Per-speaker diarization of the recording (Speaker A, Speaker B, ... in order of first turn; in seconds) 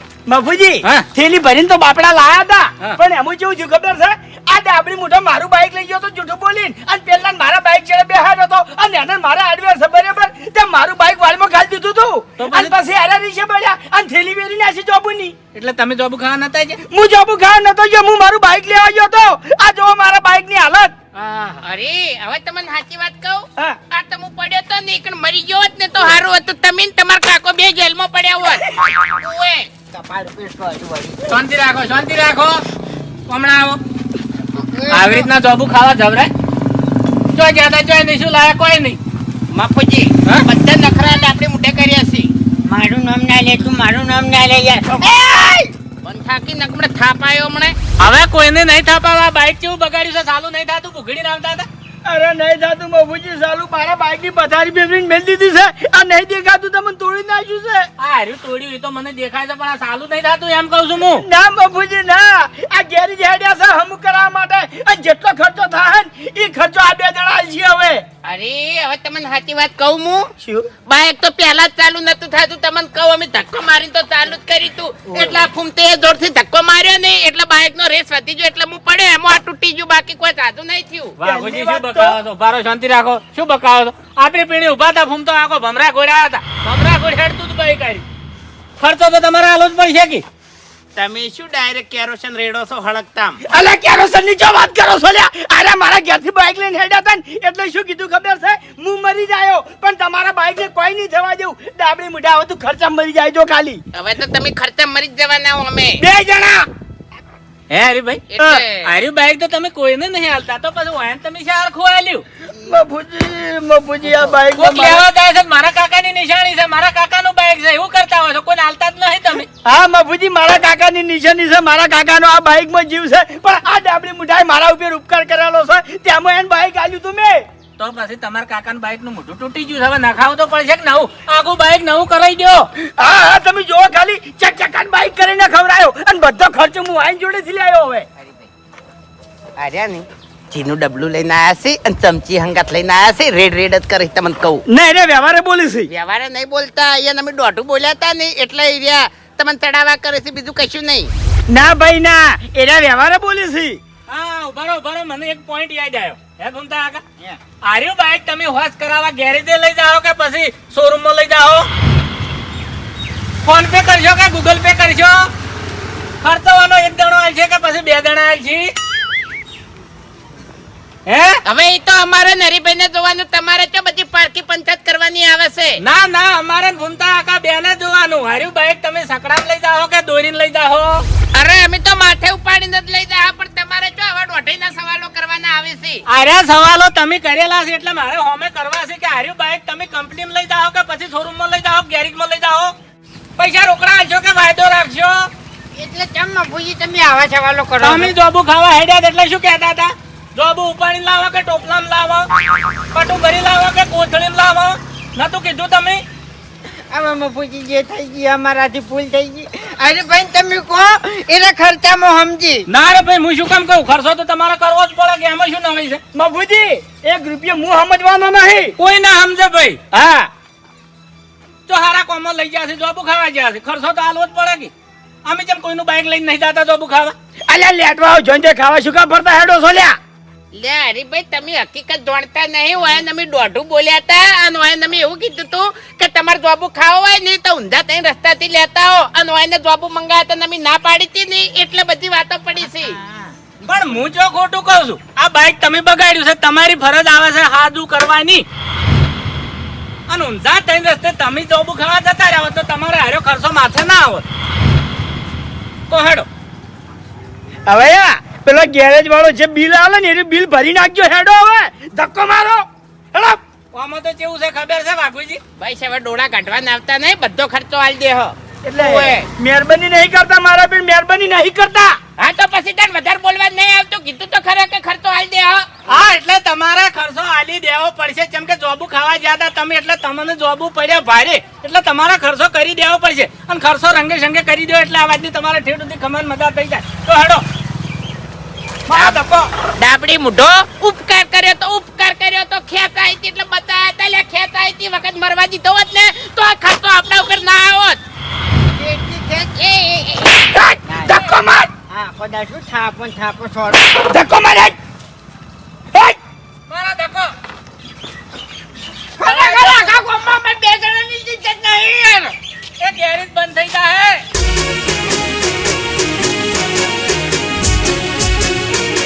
Speaker A: 0.3-15.4, 16.9-20.9, 52.1-57.9, 61.2-68.0, 70.4-70.7, 81.2-82.2, 93.5-103.8, 106.0-106.7, 112.6-115.1, 119.6-127.5, 133.0-138.1, 144.7-145.9, 151.5-153.8, 216.1-218.8, 219.9-220.3, 227.5-230.0, 257.7-263.4, 268.6-272.0, 288.9-289.2, 300.6-301.7, 304.1-304.8
Speaker B: 12.4-12.8, 15.5-16.8, 21.1-21.6, 31.2-32.6, 33.3-33.8, 34.9-36.3, 37.3-39.0, 48.0-51.7, 58.0-61.2, 81.2-88.0, 88.8-90.2, 107.7-112.2, 114.5-119.5, 127.8-132.7, 154.1-157.0, 157.6-161.7, 163.4-165.3, 166.2-168.7, 171.1-171.4, 175.8-181.1, 186.1-192.8, 193.4-195.3, 197.8-202.3, 202.9-206.0, 212.7-216.0, 218.8-219.8, 221.7-224.7, 225.3-227.2, 243.7-248.4, 250.1-254.2, 255.9-256.3, 263.7-265.4, 275.9-287.4, 288.9-289.5, 306.7-307.3, 309.2-310.1, 312.8-314.2
Speaker C: 21.6-29.7, 39.5-42.3, 46.0-47.8, 68.2-70.3, 70.9-81.2, 91.0-93.4, 103.9-106.0, 108.3-109.0, 138.2-138.5, 139.6-144.6, 145.9-151.1, 171.4-175.8, 181.3-186.0, 230.5-243.0, 265.6-269.3, 272.2-275.7, 288.9-289.2, 289.8-298.0, 299.9-300.6
Speaker D: 29.9-31.2, 34.5-35.3, 42.7-45.7, 112.5-112.8, 114.0-114.4, 195.8-198.1, 206.9-212.7, 242.6-244.0, 298.8-300.1, 300.9-301.3, 301.9-304.1, 309.2-312.3